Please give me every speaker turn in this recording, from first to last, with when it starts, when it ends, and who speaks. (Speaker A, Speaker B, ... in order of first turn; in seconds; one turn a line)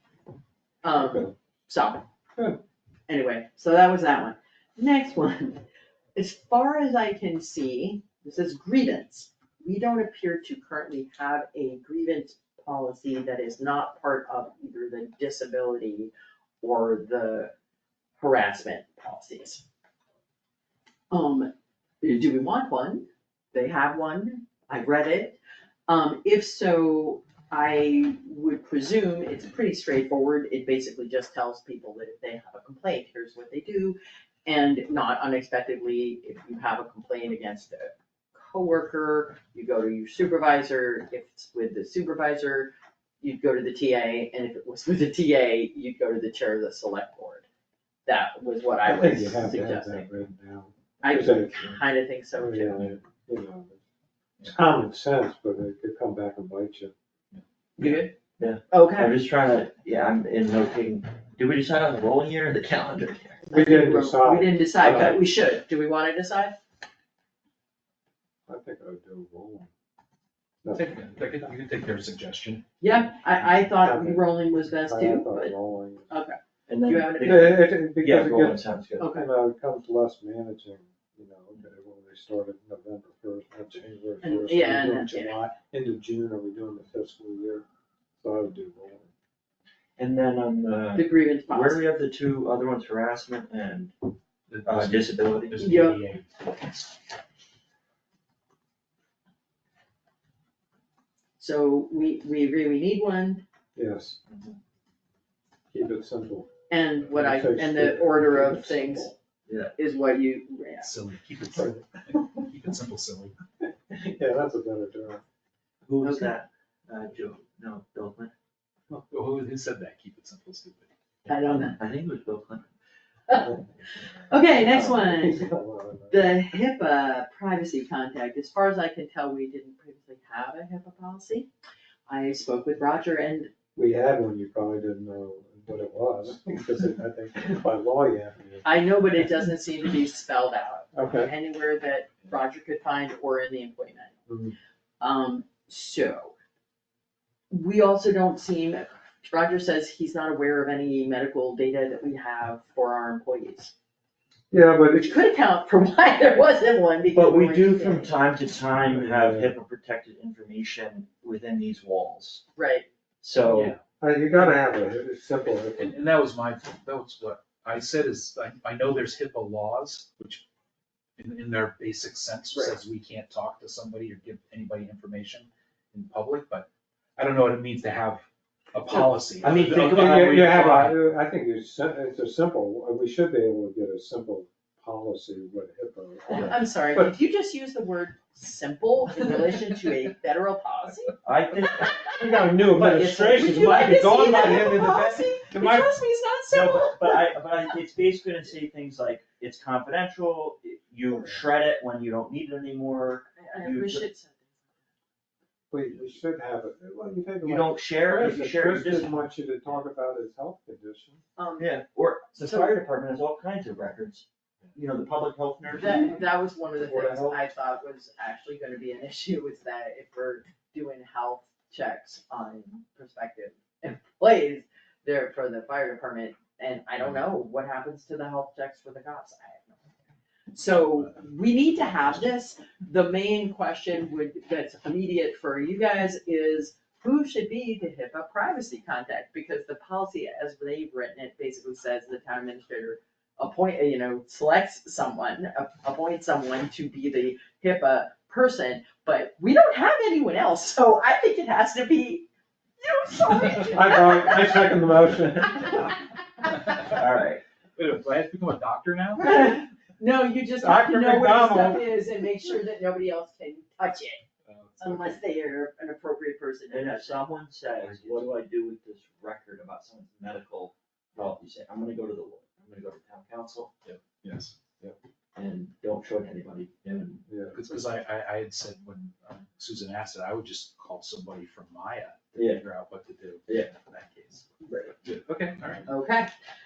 Speaker A: 0.8-2.0
Speaker B: 0.9-1.3
Speaker A: 3.1-5.6
Speaker A: 6.1-17.5
Speaker A: 18.2-19.6
Speaker A: 21.1-47.4
Speaker A: 48.0-50.0
Speaker B: 48.8-51.6
Speaker A: 51.0-53.0
Speaker B: 52.3-53.8
Speaker B: 54.4-56.9
Speaker C: 57.3-58.0
Speaker D: 57.8-63.4
Speaker A: 57.8-58.1
Speaker A: 58.7-59.1
Speaker A: 63.5-66.6
Speaker B: 63.5-65.2
Speaker D: 64.8-65.2
Speaker B: 68.5-69.7
Speaker B: 70.6-71.1
Speaker C: 70.7-72.8
Speaker A: 72.8-75.5
Speaker B: 73.5-76.1
Speaker A: 76.1-77.7
Speaker D: 76.7-79.1
Speaker B: 77.2-87.6
Speaker A: 79.0-79.2
Speaker A: 84.2-85.3
Speaker B: 88.2-89.1
Speaker D: 90.0-93.9
Speaker A: 90.9-91.9
Speaker C: 94.5-96.8
Speaker D: 94.6-95.7
Speaker A: 95.6-96.0
Speaker A: 101.4-103.4
Speaker B: 103.7-104.2
Speaker D: 104.3-104.5
Speaker B: 105.7-106.5
Speaker A: 106.7-109.1
Speaker B: 107.1-109.1
Speaker D: 109.5-109.7
Speaker A: 109.8-110.9
Speaker C: 110.8-113.4
Speaker B: 113.9-115.2
Speaker D: 115.8-118.3
Speaker A: 116.0-116.3
Speaker C: 118.9-121.4
Speaker A: 121.3-121.8
Speaker D: 121.5-122.7
Speaker A: 124.2-125.5
Speaker D: 124.6-125.0
Speaker B: 124.7-126.4
Speaker A: 126.1-131.5
Speaker A: 132.1-133.5
Speaker B: 133.8-139.4
Speaker A: 138.6-144.2
Speaker B: 140.9-141.3
Speaker B: 144.3-144.5
Speaker A: 145.0-146.3
Speaker A: 147.5-153.7
Speaker B: 154.5-155.1
Speaker A: 154.9-158.1
Speaker D: 157.1-162.4
Speaker B: 158.9-159.5
Speaker A: 162.6-162.9
Speaker D: 163.2-163.8
Speaker C: 163.4-163.8
Speaker B: 164.0-165.9
Speaker C: 164.3-164.6
Speaker C: 165.8-170.4
Speaker C: 171.2-181.0
Speaker D: 178.9-180.5
Speaker B: 179.8-187.2
Speaker A: 186.3-191.2
Speaker D: 191.2-192.2
Speaker A: 191.8-192.2
Speaker B: 192.2-195.9
Speaker D: 192.7-194.7
Speaker A: 193.3-197.3
Speaker D: 196.5-204.1
Speaker A: 203.3-204.6
Speaker B: 205.7-211.2
Speaker D: 207.4-209.3
Speaker A: 211.4-211.7
Speaker D: 211.6-216.2
Speaker A: 212.4-212.8
Speaker A: 215.8-229.8
Speaker D: 216.8-217.4
Speaker A: 230.5-252.3
Speaker A: 252.8-254.9
Speaker B: 253.7-255.7
Speaker D: 255.4-255.7
Speaker A: 255.5-256.5
Speaker D: 256.8-257.4
Speaker C: 257.8-259.5
Speaker A: 259.2-264.2
Speaker B: 260.6-261.9
Speaker C: 264.4-265.2
Speaker A: 264.8-267.2
Speaker D: 266.7-273.7
Speaker C: 267.7-268.3
Speaker C: 273.8-274.5
Speaker D: 275.3-277.2
Speaker B: 277.3-277.6
Speaker C: 277.5-284.5
Speaker D: 282.3-282.6
Speaker A: 284.6-284.9
Speaker C: 285.0-285.9
Speaker A: 285.9-286.3